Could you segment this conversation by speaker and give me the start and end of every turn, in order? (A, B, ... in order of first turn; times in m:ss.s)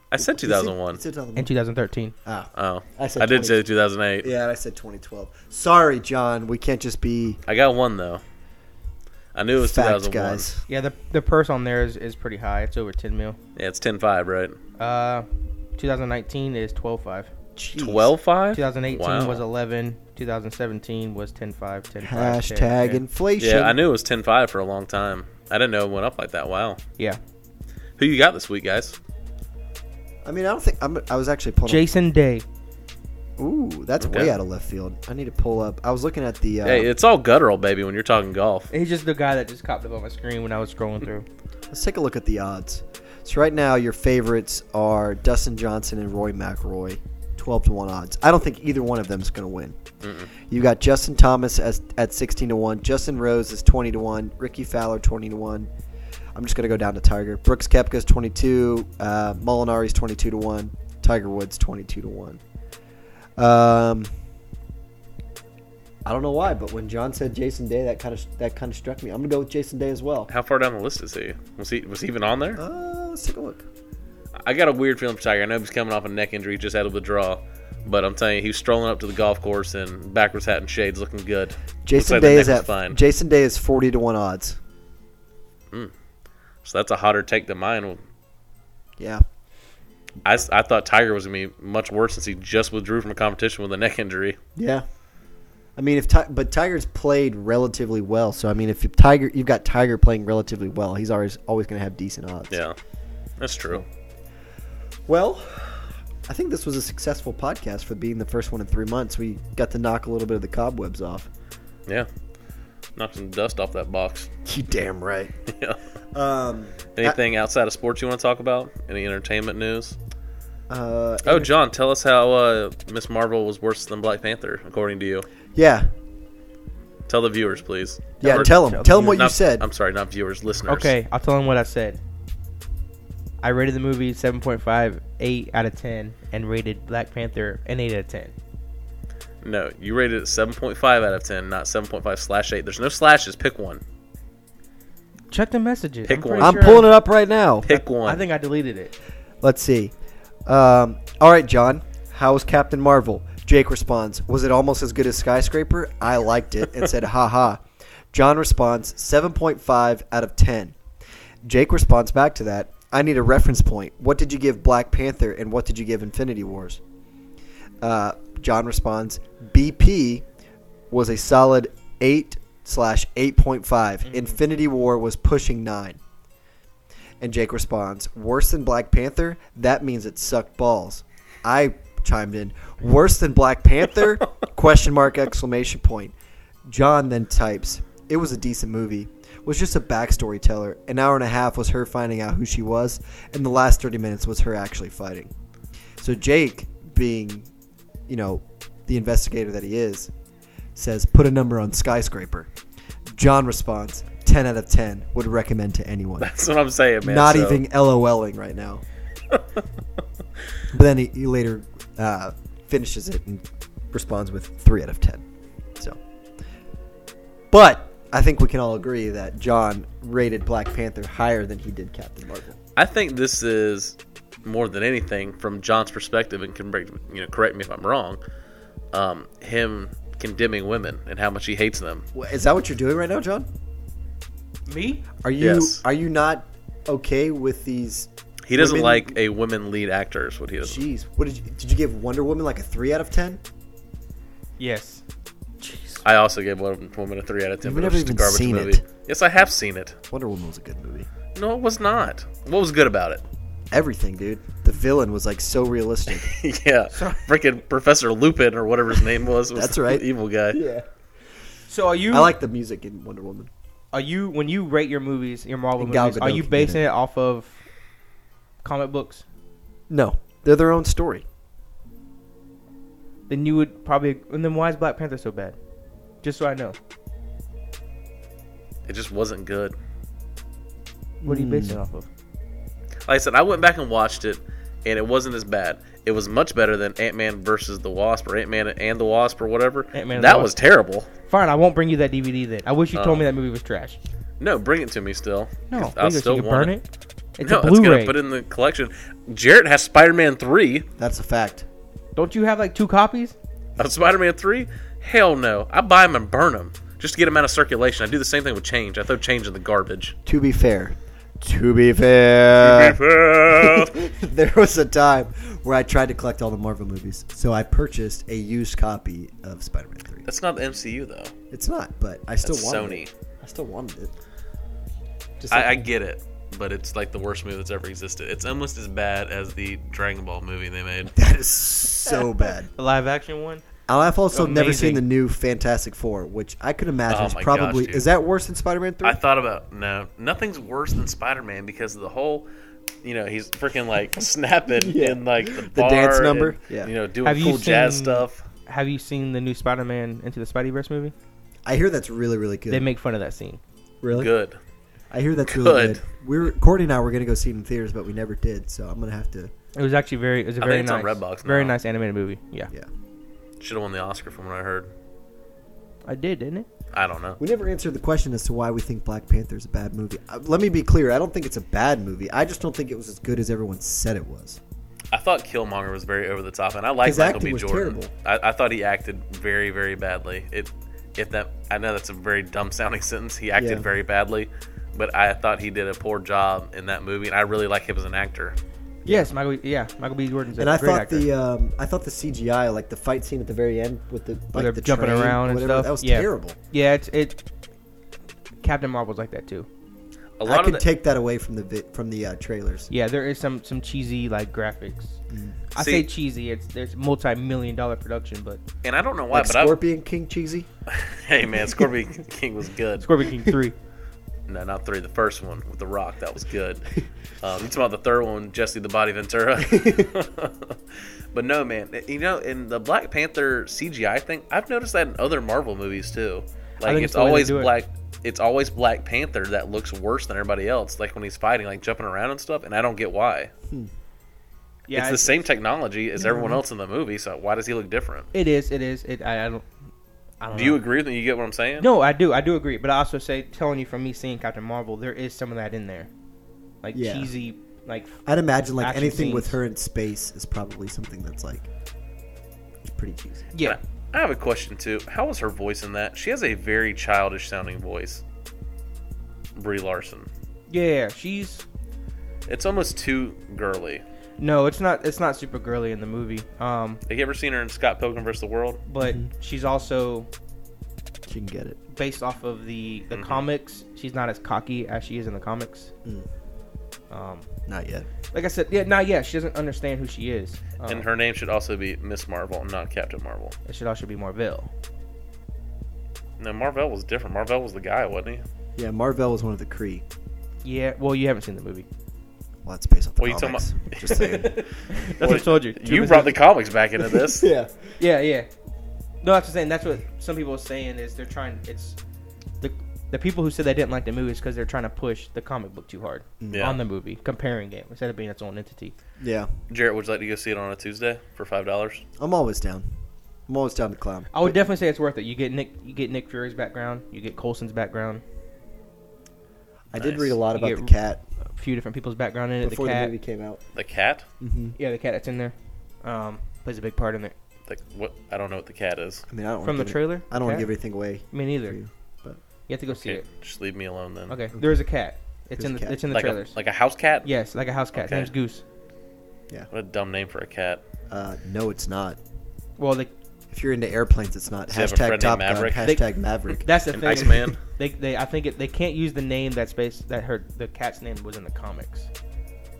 0:00.1-0:01.0 A
0:00.2-0:01.5 B
0:01.4-0:02.1 C
0:02.2-0:03.6 B
0:02.6-0:04.3 A
0:04.2-0:07.4 B
0:07.5-0:08.2 A
0:09.3-0:10.5 A
0:09.6-0:10.6 B
0:10.7-0:13.4 C
0:13.6-0:14.6 A
0:14.8-0:17.3 C
0:17.6-0:18.1 B
0:17.8-0:19.4 A
0:18.5-0:23.0 C
0:22.0-0:23.8 B
0:23.4-0:26.8 A
0:28.0-0:29.0 A
0:30.2-0:31.9 B
0:31.6-0:32.4 C
0:33.4-0:36.9 B
0:34.0-0:34.3 A
0:36.6-0:38.7 A
0:38.7-0:41.2 C
0:41.7-0:49.8 B
0:50.0-0:50.3 A
0:50.5-0:55.7 B
0:56.3-1:02.4 B
1:03.4-1:04.1 B
1:06.0-1:10.3 B
1:10.3-1:12.6 A
1:12.6-1:13.6 B
1:14.4-1:23.0 A
1:21.8-1:24.6 B
1:26.6-1:28.0 A
1:29.0-1:29.2 B
1:30.2-1:34.4 A
1:34.6-1:34.8 B
1:35.8-1:42.6 B
1:42.5-1:42.8 A
1:43.4-1:43.8 A
1:45.1-1:51.3 B
1:53.0-1:54.3 A
1:54.4-1:55.3 B
1:55.5-1:55.8 A
1:56.1-1:57.2 B
1:57.0-2:00.0 A
2:00.7-2:01.5 B
2:01.2-2:05.2 A
2:05.5-2:05.9 B
2:07.1-2:10.9 A
2:08.2-2:09.6 B
2:08.2-2:09.3 C
2:10.7-2:12.0 C
2:13.4-2:18.3 C
2:19.4-2:23.8 A
2:25.3-2:26.8 C
2:26.1-2:26.8 A
2:26.4-2:27.7 B
2:27.6-2:28.2 A
2:28.0-2:28.9 C
2:29.4-2:29.9 B
2:30.5-2:40.8 B
2:41.4-2:46.8 B
2:47.8-2:50.2 B
2:50.9-2:56.0 B
2:57.2-3:06.1 B
3:06.6-3:15.3 B
3:16.0-3:17.5 B
3:18.1-3:20.1 B
3:20.7-3:22.5 B
3:23.1-3:26.3 B
3:26.2-3:27.6 A
3:27.0-3:28.8 B
3:30.7-3:35.2 B
3:37.5-3:42.6 B
3:42.8-3:48.2 A
3:48.9-3:52.0 A
3:52.1-3:53.5 B
3:54.7-3:55.0 C
3:55.2-3:59.2 B
3:55.4-3:55.8 A
3:58.5-4:00.8 A
4:00.6-4:03.4 B
4:04.6-4:05.0 C
4:05.6-4:06.0 B
4:06.0-4:10.0 A
4:07.6-4:08.8 B
4:10.1-4:11.1 B
4:11.3-4:13.2 A
4:13.7-4:16.4 B
4:16.1-4:20.6 A
4:16.9-4:17.2 C
4:19.5-4:20.9 B
4:21.7-4:22.3 C
4:22.1-4:23.5 B
4:23.9-4:27.6 C
4:25.8-4:26.8 B
4:28.6-4:29.2 C
4:29.9-4:31.2 B
4:33.3-4:35.6 C
4:36.2-4:36.8 C
4:38.8-4:39.7 A
4:41.2-4:41.8 B
4:41.2-4:42.1 C
4:43.1-4:51.1 A
4:49.9-4:50.5 C
4:51.3-4:54.0 C
4:52.9-4:53.3 A
4:54.4-4:56.7 A
4:55.7-4:56.8 C
4:57.4-4:58.1 C
4:57.4-5:00.9 A
5:01.0-5:01.7 B
5:02.2-5:03.4 C
5:03.8-5:10.2 A
5:10.2-5:20.2 B
5:12.6-5:14.0 A
5:20.2-5:21.3 A
5:21.5-5:24.1 B
5:22.4-5:23.1 A
5:25.4-5:25.7 B
5:25.5-5:31.1 A
5:31.1-5:32.7 B
5:32.8-5:33.6 C
5:33.9-5:39.2 B
5:34.3-5:35.0 C
5:37.1-5:38.0 A
5:39.0-5:42.4 A
5:43.0-5:48.4 A
5:44.7-5:46.9 B
5:47.2-5:51.1 C
5:51.6-5:52.9 B
5:52.7-5:53.6 C
5:54.0-5:54.3 B
5:54.1-5:54.6 A
5:55.1-5:59.5 B
5:55.5-5:56.0 A
5:59.7-6:02.7 C
6:00.6-6:01.8 A
6:03.6-6:04.9 A
6:06.0-6:06.7 C
6:06.9-6:07.4 A
6:07.4-6:14.6 B
6:15.1-6:28.6 A
6:17.0-6:18.1 B
6:23.6-6:23.9 B
6:29.0-6:31.3 C
6:30.6-6:36.6 B
6:34.5-6:37.4 C
6:38.6-6:39.7 C
6:40.4-6:40.8 A
6:40.4-6:42.9 B
6:42.9-6:45.2 C
6:45.3-6:45.6 B
6:45.7-6:48.6 C
6:45.8-6:46.1 A
6:48.8-6:49.8 A
6:49.3-6:50.7 B
6:50.9-6:53.1 A
6:51.6-6:51.9 B
6:53.0-6:53.7 C
6:54.5-7:00.8 A
6:59.6-7:00.1 B
7:01.3-7:13.5 A
7:06.8-7:07.7 C
7:14.9-7:15.4 C
7:14.9-7:18.3 A
7:16.2-7:16.6 C
7:18.3-7:19.6 C
7:20.4-7:20.8 C
7:20.5-7:21.9 A
7:21.8-7:26.1 C
7:26.8-7:28.2 C
7:26.9-7:27.3 B
7:28.2-7:31.7 B
7:28.8-7:29.6 C
7:32.8-7:33.5 B
7:33.6-7:38.2 A
7:39.5-7:40.3 A
7:40.7-7:41.6 C
7:42.5-7:44.0 A
7:44.4-7:47.0 C
7:47.1-7:48.8 A
7:48.9-7:50.3 C
7:49.0-7:49.3 B
7:51.2-7:51.8 B
7:51.9-7:55.9 C
7:53.1-7:53.4 A
7:57.1-7:57.5 C
7:57.7-7:58.1 B
7:58.3-8:01.1 C
8:00.8-8:03.5 A
8:03.6-8:04.7 C
8:06.4-8:08.4 A
8:08.8-8:10.0 B
8:10.6-8:11.8 C
8:12.6-8:15.4 B
8:13.2-8:17.5 A
8:14.9-8:16.4 C
8:17.0-8:17.9 B
8:18.0-8:18.5 C
8:19.2-8:22.0 C
8:22.6-8:28.9 C
8:26.4-8:26.7 B
8:26.5-8:26.8 A
8:29.2-8:29.5 B
8:29.7-8:32.0 A
8:32.2-8:32.8 B
8:33.5-8:34.6 B
8:34.3-8:38.2 C
8:39.9-8:41.2 B
8:40.0-8:40.3 A
8:40.5-8:40.9 C
8:41.4-8:43.1 C
8:42.6-8:43.6 B
8:43.7-8:44.2 A
8:44.4-8:44.8 B
8:44.8-8:47.3 C
8:47.7-8:49.2 A
8:49.3-8:52.4 B
8:49.6-8:50.7 C
8:51.3-8:51.8 C
8:52.7-8:53.2 C
8:52.9-8:54.4 A
8:54.3-8:56.6 C
8:55.6-8:56.0 B
8:56.1-8:57.3 A
8:57.2-8:58.6 C
8:57.9-8:58.3 A
8:59.7-9:00.8 A
9:01.1-9:02.2 B
9:02.8-9:03.1 C
9:03.5-9:06.6 B
9:04.7-9:05.8 A
9:06.6-9:12.1 C
9:06.9-9:07.6 A